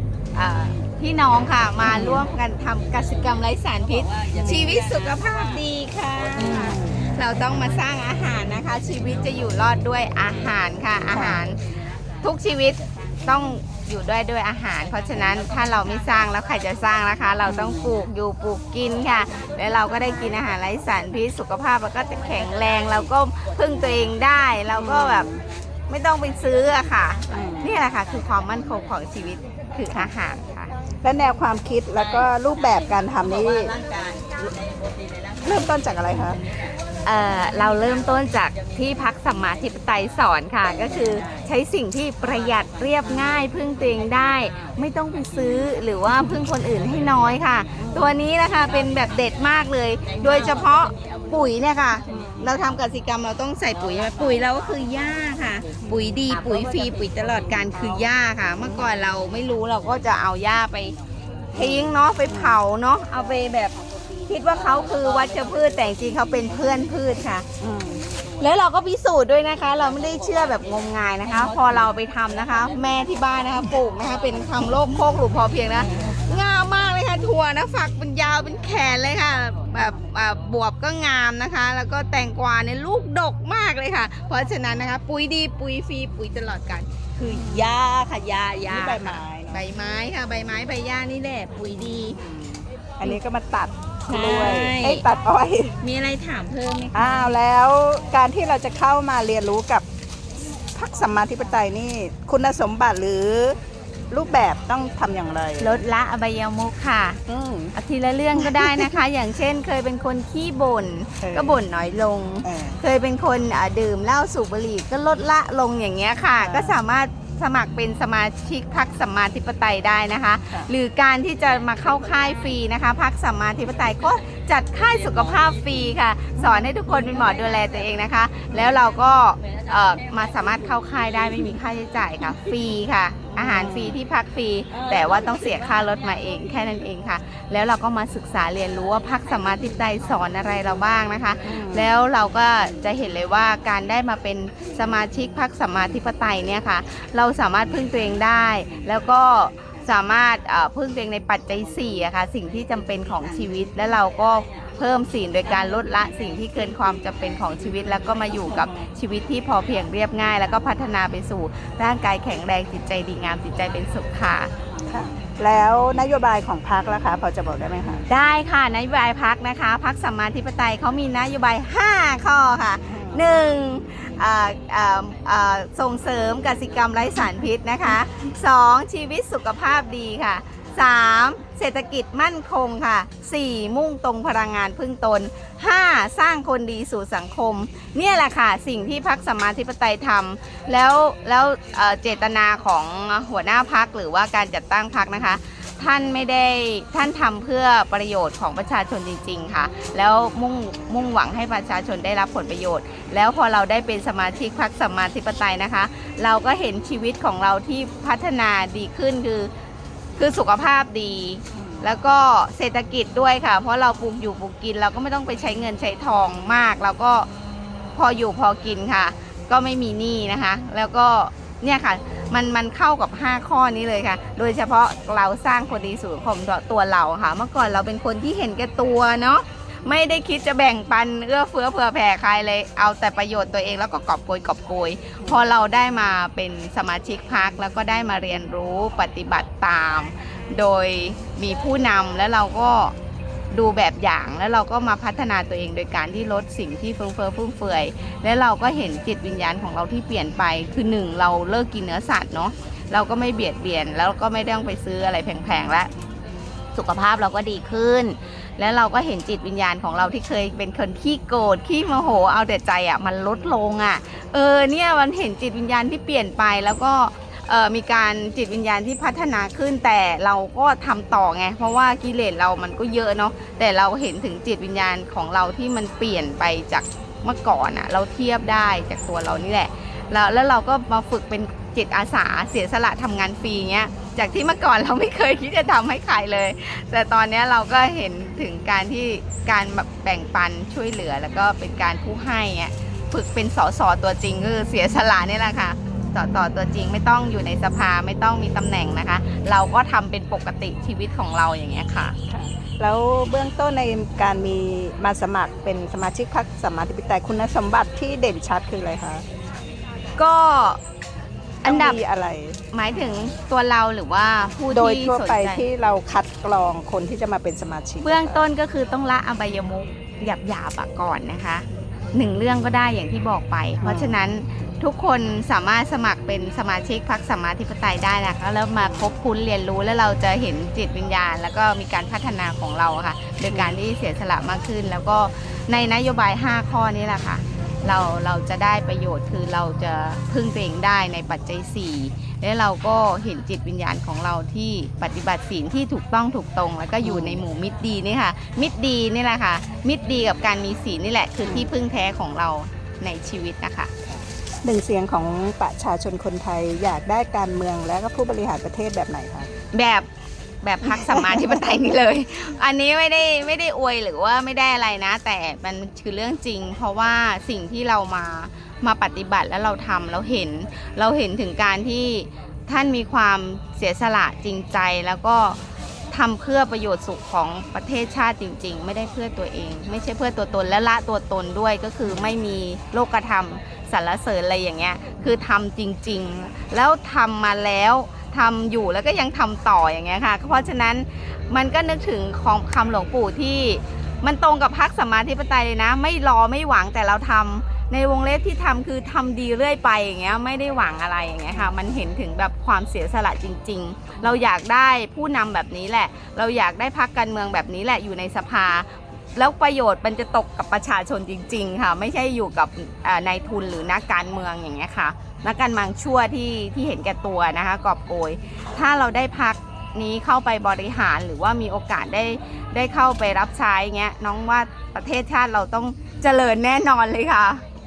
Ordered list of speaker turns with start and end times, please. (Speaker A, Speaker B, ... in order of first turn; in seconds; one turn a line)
Speaker A: 0.3-11.6
Speaker B: 1.8-2.2
Speaker C: 4.0-5.3
Speaker B: 4.3-4.8
Speaker B: 6.4-7.0
Speaker C: 6.4-6.8
Speaker B: 11.1-11.4
Speaker C: 11.1-11.5
Speaker A: 12.2-25.3
Speaker C: 15.3-15.8
Speaker C: 17.4-17.8
Speaker B: 17.4-17.8
Speaker B: 24.7-25.4
Speaker A: 25.9-30.7
Speaker B: 27.3-27.7
Speaker B: 31.0-33.7
Speaker C: 32.1-36.6
Speaker B: 35.4-36.4
Speaker A: 37.0-61.0
Speaker C: 38.2-38.6
Speaker C: 40.9-41.4
Speaker C: 42.6-43.3
Speaker B: 47.8-48.1
Speaker C: 47.8-49.0
Speaker C: 50.0-51.3
Speaker B: 52.1-52.5
Speaker C: 52.1-52.5
Speaker C: 54.0-54.6
Speaker B: 55.8-56.1
Speaker C: 56.8-57.7
Speaker B: 61.5-62.6
Speaker A: 61.5-63.8
Speaker A: 64.3-67.5
Speaker C: 64.4-66.2
Speaker B: 67.6-68.0
Speaker A: 68.4-92.2
Speaker C: 70.1-70.6
Speaker C: 72.5-73.0
Speaker C: 73.6-76.2
Speaker B: 87.3-87.7
Speaker B: 88.7-89.7
Speaker B: 92.0-95.7
Speaker A: 94.1-95.0
Speaker A: 95.8-97.3
Speaker B: 96.9-99.8
Speaker B: 100.8-103.6
Speaker B: 104.1-105.8
Speaker A: 105.6-107.2
Speaker B: 107.3-107.7
Speaker A: 107.7-164.5
Speaker B: 108.4-108.9
Speaker B: 111.2-111.6
Speaker B: 112.4-112.8
Speaker B: 116.4-116.8
Speaker B: 126.4-126.7
Speaker C: 129.8-131.1
Speaker B: 133.3-134.0
Speaker B: 141.4-141.9
Speaker B: 164.9-168.1
Speaker A: 168.1-209.5
Speaker B: 172.9-173.3
Speaker A: 210.2-217.3
Speaker A: 217.9-242.9
Speaker A: 243.5-255.9
Speaker A: 256.8-302.1
Speaker B: 302.3-309.2
Speaker A: 310.2-310.8
Speaker B: 311.6-313.1
Speaker A: 311.6-312.0
Speaker A: 312.7-315.6
Speaker B: 314.7-318.4
Speaker A: 318.0-353.9
Speaker B: 323.8-324.2
Speaker B: 328.8-329.2
Speaker B: 333.5-333.8
Speaker B: 347.0-347.4
Speaker B: 351.4-351.7
Speaker B: 354.1-359.5
Speaker A: 359.7-360.1
Speaker A: 360.6-375.6
Speaker B: 360.8-361.7
Speaker A: 376.1-427.6
Speaker B: 401.5-401.7